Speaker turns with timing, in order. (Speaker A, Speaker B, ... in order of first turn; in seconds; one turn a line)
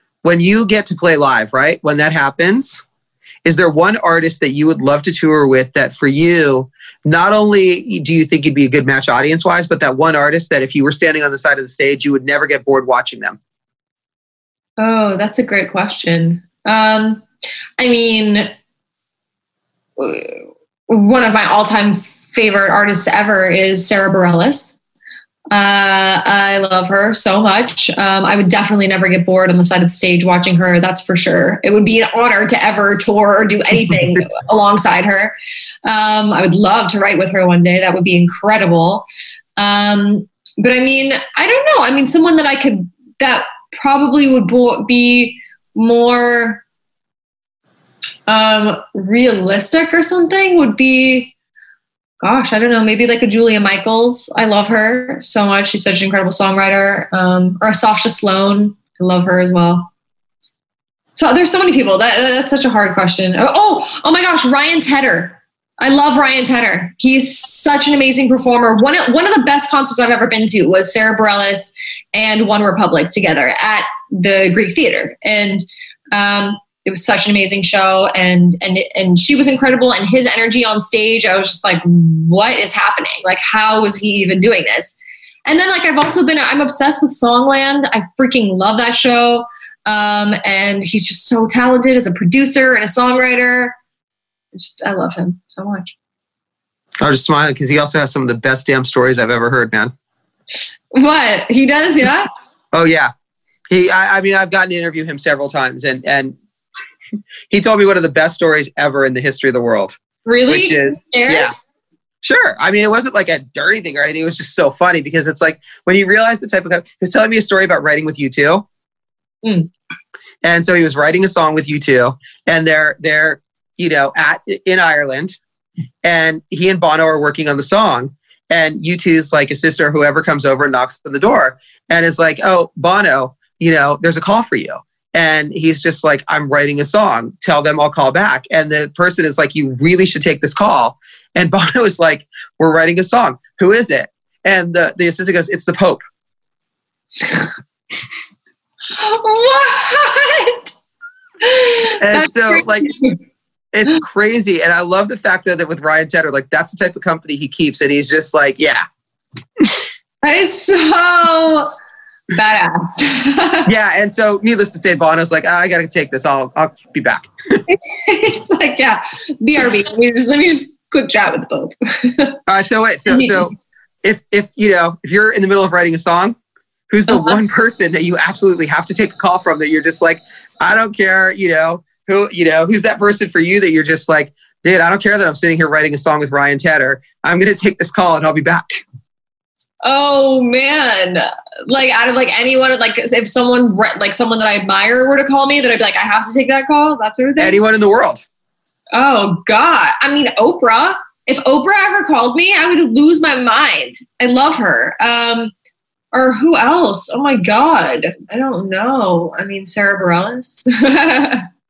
Speaker A: 0.2-2.8
Speaker A: 3.5-13.4
Speaker B: 14.8-17.2
Speaker B: 17.8-18.5
Speaker B: 20.0-24.8
Speaker B: 25.5-35.3
Speaker B: 35.9-39.1
Speaker B: 39.6-46.6
Speaker B: 48.3-51.3
Speaker B: 52.2-59.9
Speaker B: 61.2-93.8
Speaker B: 94.5-95.9
Speaker A: 97.0-99.9
Speaker B: 100.9-102.3
Speaker A: 102.7-103.1
Speaker A: 103.7-106.4
Speaker A: 107.5-110.0
Speaker B: 110.2-111.5
Speaker A: 110.5-111.5
Speaker A: 112.2-118.7
Speaker B: 119.4-119.7
Speaker A: 120.4-125.4
Speaker A: 126.0-146.0
Speaker B: 148.9-150.7
Speaker B: 151.4-153.2
Speaker A: 152.0-152.9
Speaker A: 153.7-158.8
Speaker B: 160.2-161.7
Speaker B: 162.3-163.7
Speaker A: 163.7-167.6
Speaker B: 167.7-172.4
Speaker A: 172.5-176.4
Speaker B: 173.1-173.5
Speaker A: 176.9-188.8
Speaker B: 177.1-177.4
Speaker B: 189.8-197.6
Speaker A: 197.4-198.2
Speaker B: 198.9-205.5
Speaker B: 206.1-211.5